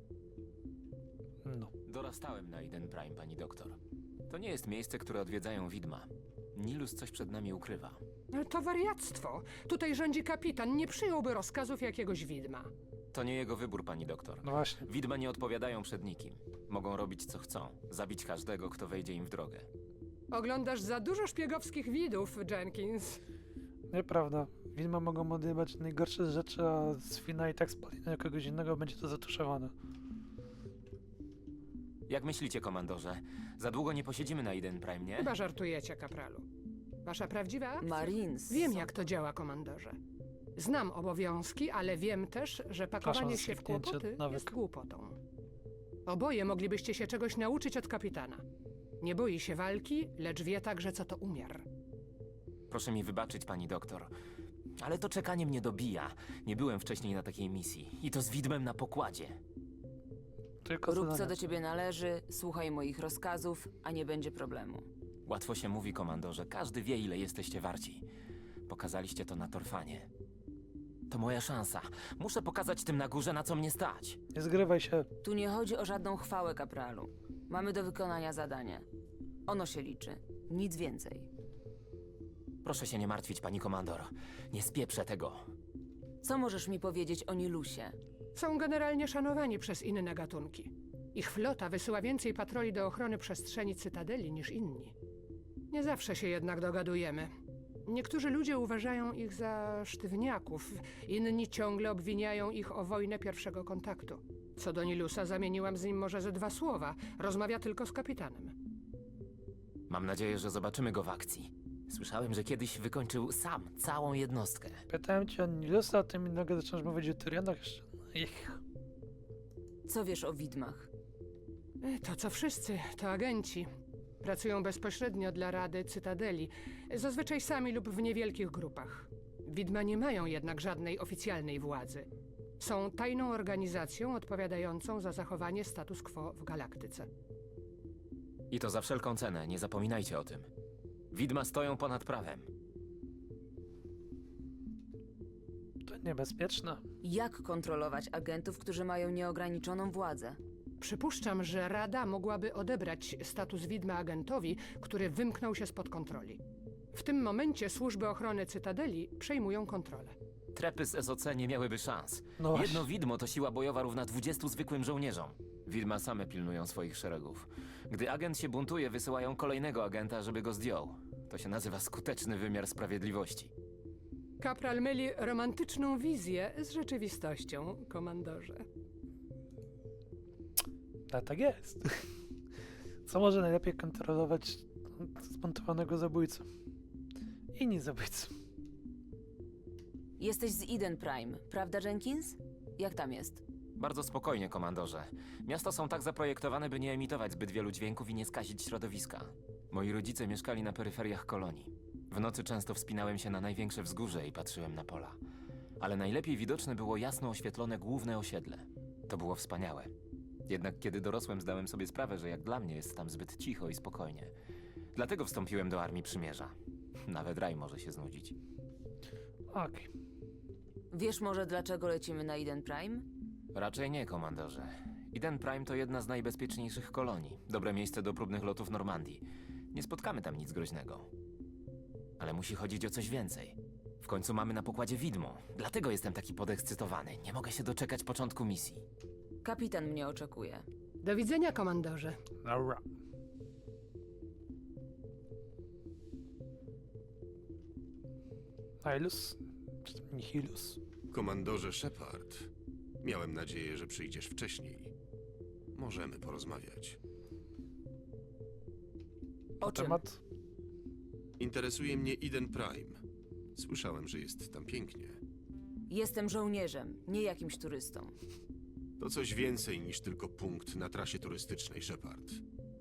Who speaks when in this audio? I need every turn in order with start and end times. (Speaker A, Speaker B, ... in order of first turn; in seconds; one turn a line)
Speaker A: 1.4-1.7
Speaker B: 1.9-3.8
Speaker B: 4.3-8.0
Speaker C: 8.3-12.7
Speaker B: 13.1-19.7
Speaker A: 14.4-14.8
Speaker C: 20.3-23.2
Speaker A: 23.9-29.7
Speaker B: 32.1-35.3
Speaker C: 35.2-36.5
Speaker C: 37.0-40.0
Speaker D: 37.8-38.9
Speaker C: 40.6-45.2
Speaker A: 43.0-44.5
Speaker C: 46.1-48.4
Speaker C: 49.0-51.6
Speaker B: 52.7-54.1
Speaker B: 54.8-59.4
Speaker A: 60.6-61.3
Speaker D: 60.9-64.8
Speaker B: 65.2-68.0
Speaker B: 68.7-70.1
Speaker B: 71.1-74.2
Speaker A: 74.3-75.1
Speaker D: 75.2-78.8
Speaker D: 79.5-81.3
Speaker B: 82.6-85.4
Speaker D: 86.2-88.0
Speaker C: 88.3-94.9
Speaker C: 95.7-97.3
Speaker C: 97.8-108.5
Speaker B: 109.9-114.8
Speaker A: 114.9-118.6
Speaker D: 119.9-120.9
Speaker C: 121.8-123.7
Speaker C: 124.2-132.1
Speaker C: 132.6-137.1
Speaker B: 138.5-140.5
Speaker B: 141.1-142.5
Speaker A: 145.8-146.8
Speaker D: 147.0-150.4
Speaker C: 150.8-156.4
Speaker C: 156.9-160.2
Speaker B: 160.5-173.5
Speaker A: 162.4-162.9
Speaker C: 174.4-178.6
Speaker A: 181.1-182.1
Speaker A: 183.1-186.4
Speaker A: 187.5-188.3
Speaker D: 190.2-193.4
Speaker B: 193.8-205.2
Speaker B: 205.8-209.9
Speaker B: 210.5-214.3
Speaker B: 214.9-216.5
Speaker B: 217.1-218.3
Speaker A: 219.5-219.9
Speaker D: 220.9-223.0
Speaker B: 223.5-231.1
Speaker B: 232.2-238.8
Speaker D: 239.4-240.7
Speaker C: 241.0-242.2
Speaker A: 242.4-242.8
Speaker A: 248.8-250.8
Speaker E: 251.1-252.5
Speaker E: 253.0-254.9
Speaker E: 255.7-257.0
Speaker D: 259.6-260.0
Speaker A: 259.6-260.2
Speaker E: 261.4-263.0
Speaker E: 263.6-265.2
Speaker D: 265.9-268.1
Speaker E: 269.0-272.4